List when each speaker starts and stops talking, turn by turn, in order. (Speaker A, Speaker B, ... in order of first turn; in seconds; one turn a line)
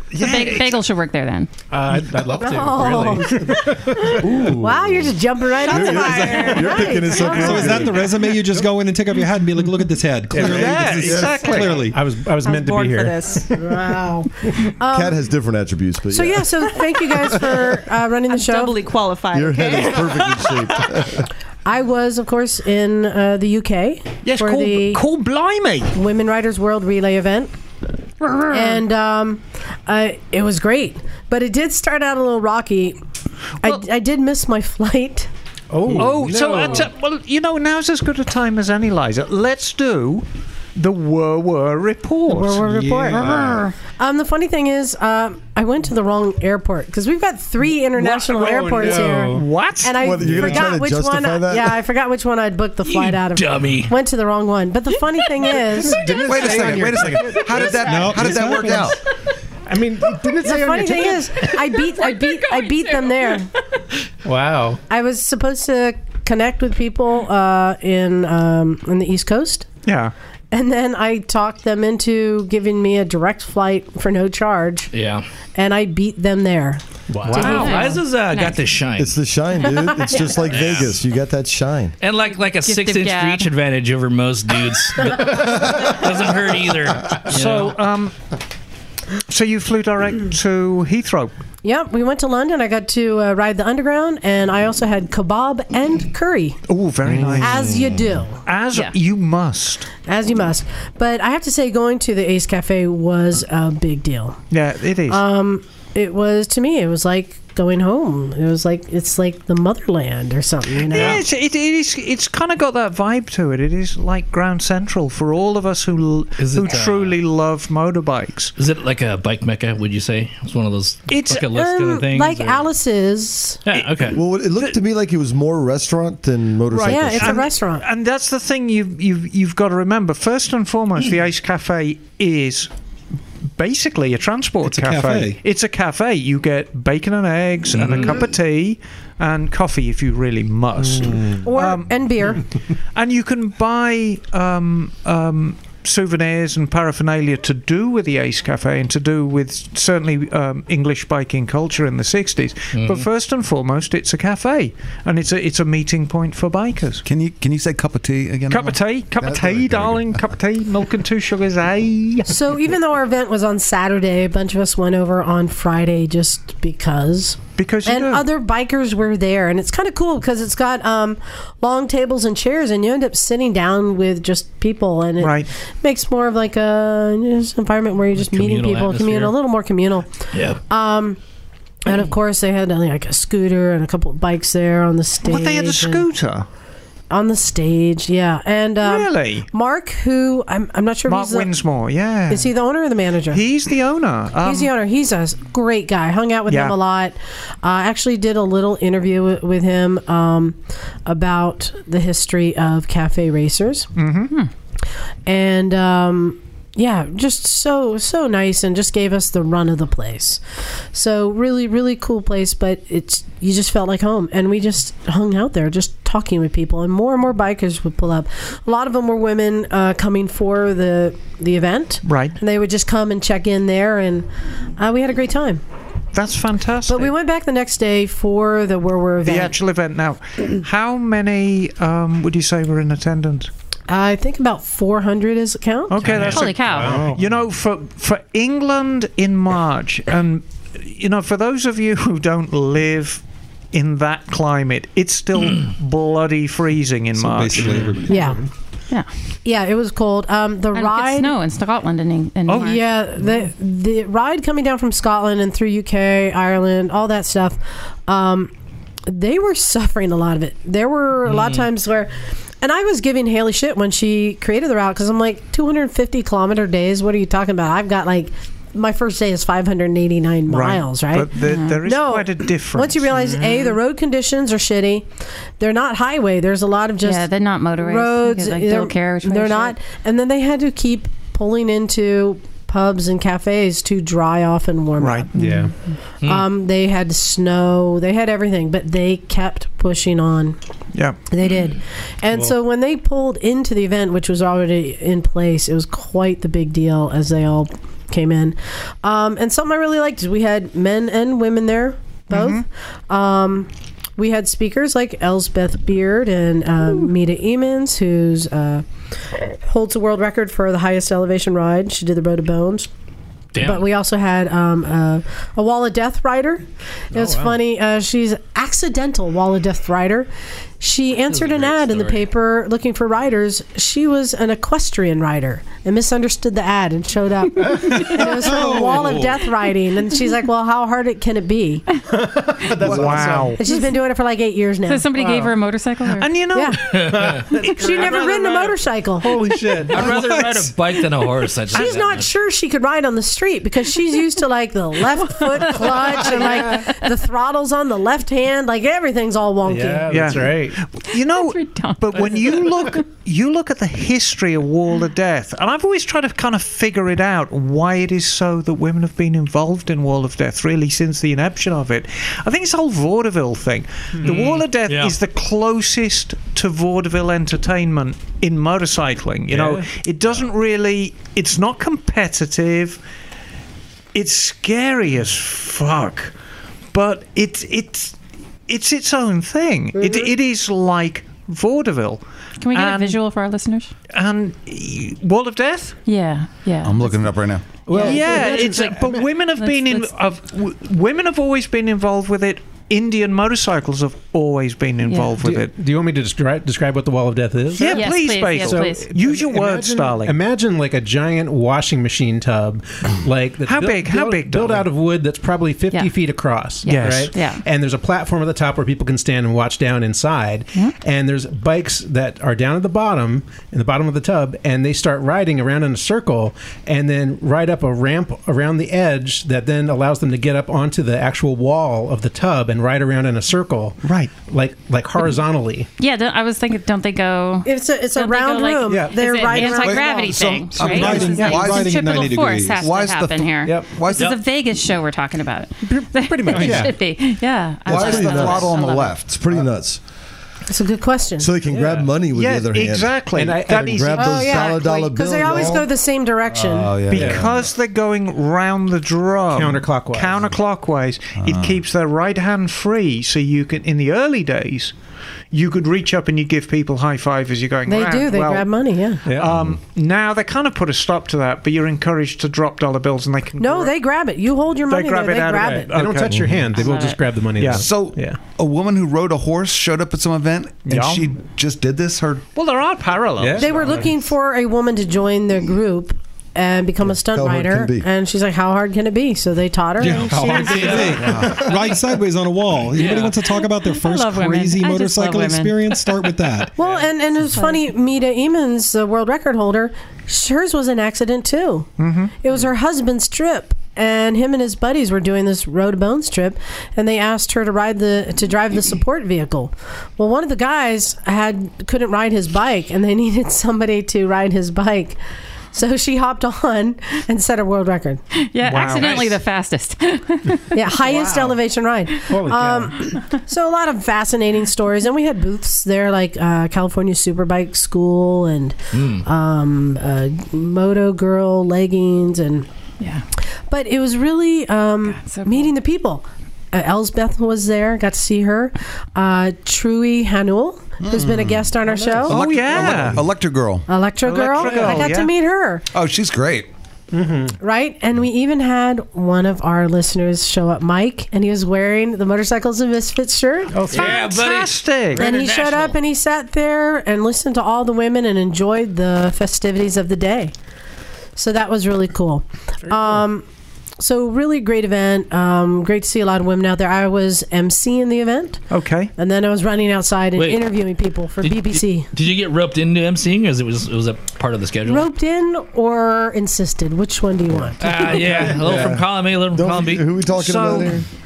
Speaker A: 0.1-0.8
Speaker B: 0.2-1.5
Speaker C: 1.7-4.4
Speaker D: 2.4-7.9
Speaker E: 4.2-8.1
Speaker F: 5.5-7.3
Speaker G: 7.2-12.0
Speaker C: 10.3-13.9
Speaker A: 10.4-11.9
Speaker E: 10.9-11.6
Speaker F: 12.4-13.5
Speaker D: 13.6-15.2
Speaker E: 14.9-16.8
Speaker D: 16.1-18.8
Speaker F: 18.3-20.5
Speaker E: 19.3-21.3
Speaker D: 21.7-25.0
Speaker A: 24.2-25.9
Speaker D: 25.9-27.5
Speaker D: 28.5-33.0
Speaker D: 33.6-35.3
Speaker C: 35.7-36.9
Speaker A: 35.9-42.6
Speaker D: 42.3-56.1
Speaker C: 42.8-43.6
Speaker C: 48.0-49.5
Speaker A: 48.1-50.0
Speaker E: 50.0-51.8
Speaker C: 50.3-50.7
Speaker H: 52.8-53.9
Speaker C: 55.5-58.9
Speaker I: 56.1-59.0
Speaker G: 57.7-58.9
Speaker C: 59.7-61.7
Speaker D: 60.4-63.5
Speaker B: 62.1-62.9
Speaker C: 64.2-64.8
Speaker D: 64.9-69.7
Speaker A: 69.8-70.1
Speaker D: 70.5-74.9
Speaker H: 74.9-75.3
Speaker D: 75.6-78.0
Speaker C: 77.1-77.6
Speaker B: 77.3-78.6
Speaker A: 77.3-77.8
Speaker H: 77.5-79.1
Speaker E: 79.0-82.0
Speaker B: 80.1-80.5
Speaker H: 80.5-80.9
Speaker H: 82.0-87.7
Speaker B: 82.3-83.5
Speaker A: 87.3-88.2
Speaker A: 89.3-91.3
Speaker D: 91.6-96.6
Speaker A: 96.7-97.8
Speaker D: 97.4-98.4
Speaker A: 98.5-99.9
Speaker D: 100.0-104.4
Speaker A: 104.5-105.2
Speaker D: 105.1-111.2
Speaker A: 110.9-118.5
Speaker H: 110.9-111.2
Speaker H: 116.4-117.2
Speaker H: 118.6-122.7
Speaker A: 121.1-121.5
Speaker D: 121.4-123.6
Speaker H: 123.7-124.2
Speaker E: 124.1-127.5
Speaker A: 126.7-132.7
Speaker D: 126.8-127.8
Speaker A: 133.6-142.4
Speaker G: 134.7-135.4
Speaker H: 137.7-138.2
Speaker D: 141.4-142.4
Speaker A: 142.9-157.0
Speaker H: 152.7-153.1
Speaker I: 157.1-160.2
Speaker A: 158.5-162.3
Speaker D: 162.3-180.1
Speaker A: 167.6-168.2
Speaker A: 175.2-175.5
Speaker H: 178.2-179.3
Speaker H: 180.3-180.6
Speaker D: 180.7-181.2
Speaker D: 181.8-186.1
Speaker A: 185.2-186.5
Speaker D: 187.1-191.5
Speaker A: 188.8-189.5
Speaker A: 191.1-192.5
Speaker D: 192.3-193.4
Speaker A: 193.3-194.7
Speaker D: 194.4-203.9
Speaker A: 196.5-196.8
Speaker A: 204.0-204.3
Speaker D: 205.3-210.4
Speaker D: 210.9-225.6
Speaker A: 222.1-222.4
Speaker A: 226.1-227.1
Speaker D: 226.9-229.6
Speaker A: 229.2-233.5
Speaker D: 233.9-236.1
Speaker A: 235.9-243.2
Speaker C: 236.0-237.2
Speaker B: 236.2-237.1
Speaker A: 243.7-248.0
Speaker G: 247.2-248.3
Speaker C: 247.7-247.9
Speaker D: 248.1-248.4
Speaker D: 249.4-251.3
Speaker B: 250.7-252.9
Speaker A: 252.5-252.8
Speaker D: 252.6-258.5
Speaker D: 259.1-275.1
Speaker H: 261.3-261.7
Speaker A: 270.5-273.1
Speaker B: 271.4-271.8
Speaker C: 273.2-273.6
Speaker D: 275.6-277.3
Speaker B: 277.0-279.8
Speaker D: 277.8-285.6
Speaker A: 285.0-285.3
Speaker C: 285.4-285.7
Speaker D: 286.2-290.6
Speaker D: 291.3-308.9
Speaker A: 302.3-302.6
Speaker D: 309.5-312.9
Speaker H: 313.5-313.9
Speaker D: 313.6-320.3
Speaker C: 317.1-317.6
Speaker D: 320.8-331.9
Speaker H: 321.3-322.3
Speaker C: 327.7-329.0
Speaker H: 328.7-329.2
Speaker C: 332.1-333.6
Speaker I: 332.8-333.5
Speaker A: 332.8-333.6
Speaker D: 333.6-335.1
Speaker B: 334.9-336.4
Speaker C: 335.2-335.5
Speaker A: 336.2-336.9
Speaker D: 336.5-337.0
Speaker H: 336.9-337.5
Speaker C: 337.0-341.0
Speaker D: 337.6-339.3
Speaker H: 339.9-342.3
Speaker D: 341.7-350.3
Speaker B: 346.5-346.8
Speaker C: 349.7-350.8
Speaker A: 350.1-373.0
Speaker B: 351.1-352.7
Speaker H: 364.2-365.2
Speaker H: 369.5-369.8
Speaker A: 374.1-376.3
Speaker A: 376.9-378.1
Speaker A: 378.7-383.2
Speaker B: 382.6-383.9
Speaker A: 384.1-386.0
Speaker B: 386.1-387.3
Speaker I: 386.8-387.7
Speaker C: 387.9-389.2
Speaker B: 387.9-388.9
Speaker A: 387.9-395.7
Speaker B: 389.5-390.1
Speaker B: 395.1-395.4
Speaker C: 395.4-425.9
Speaker A: 397.8-400.4
Speaker B: 397.8-399.1
Speaker A: 403.6-404.9
Speaker B: 405.9-406.2
Speaker B: 406.8-407.6
Speaker A: 406.9-407.3
Speaker A: 424.0-424.3
Speaker B: 426.0-439.2
Speaker D: 427.6-431.3
Speaker C: 428.9-429.2
Speaker I: 429.7-434.4
Speaker G: 430.9-432.9
Speaker C: 433.6-433.9
Speaker C: 436.2-437.0
Speaker E: 437.9-440.0
Speaker I: 437.9-439.7
Speaker D: 440.7-441.5
Speaker E: 441.4-445.9
Speaker C: 441.7-442.1
Speaker A: 442.3-444.7
Speaker C: 443.3-444.1
Speaker D: 444.1-446.9
Speaker I: 446.5-447.6
Speaker A: 447.1-454.9
Speaker C: 447.1-447.5
Speaker C: 449.5-450.5
Speaker I: 451.4-451.8
Speaker A: 455.5-458.7
Speaker D: 457.9-459.2
Speaker C: 459.3-459.5
Speaker A: 459.3-463.9
Speaker I: 459.4-459.8
Speaker D: 463.6-465.9
Speaker A: 464.9-466.5
Speaker C: 465.6-468.4
Speaker B: 466.7-467.2
Speaker A: 467.6-467.8
Speaker I: 467.7-472.4
Speaker A: 470.9-471.3
Speaker A: 472.6-473.8
Speaker C: 473.4-474.1
Speaker D: 473.6-481.2
Speaker E: 477.0-478.1
Speaker G: 480.0-486.8
Speaker H: 480.6-481.5
Speaker I: 481.2-481.7
Speaker H: 482.9-483.4
Speaker B: 483.6-486.2
Speaker D: 486.8-491.9
Speaker B: 487.4-487.8
Speaker A: 492.0-492.3
Speaker D: 492.4-505.2
Speaker D: 505.7-508.2
Speaker B: 508.3-510.9
Speaker A: 508.6-509.4
Speaker D: 510.7-522.7
Speaker C: 511.1-511.6
Speaker C: 512.3-513.1
Speaker H: 518.9-519.3
Speaker D: 523.7-532.4
Speaker B: 525.1-525.7
Speaker I: 531.0-531.7
Speaker C: 531.9-532.4
Speaker I: 532.3-533.9
Speaker A: 532.3-533.2
Speaker D: 533.9-535.9
Speaker A: 534.2-535.3
Speaker I: 535.9-536.7
Speaker C: 537.1-537.6
Speaker D: 537.6-543.8
Speaker C: 543.7-544.2
Speaker H: 543.9-546.0
Speaker A: 543.9-545.3
Speaker D: 545.2-550.5
Speaker D: 551.4-553.5
Speaker D: 554.0-558.6
Speaker A: 558.7-559.1
Speaker D: 559.2-562.1
Speaker H: 560.4-560.7
Speaker H: 561.4-565.1
Speaker D: 564.9-567.9
Speaker H: 567.8-570.1
Speaker C: 568.2-568.9
Speaker E: 568.4-571.0
Speaker A: 570.3-571.0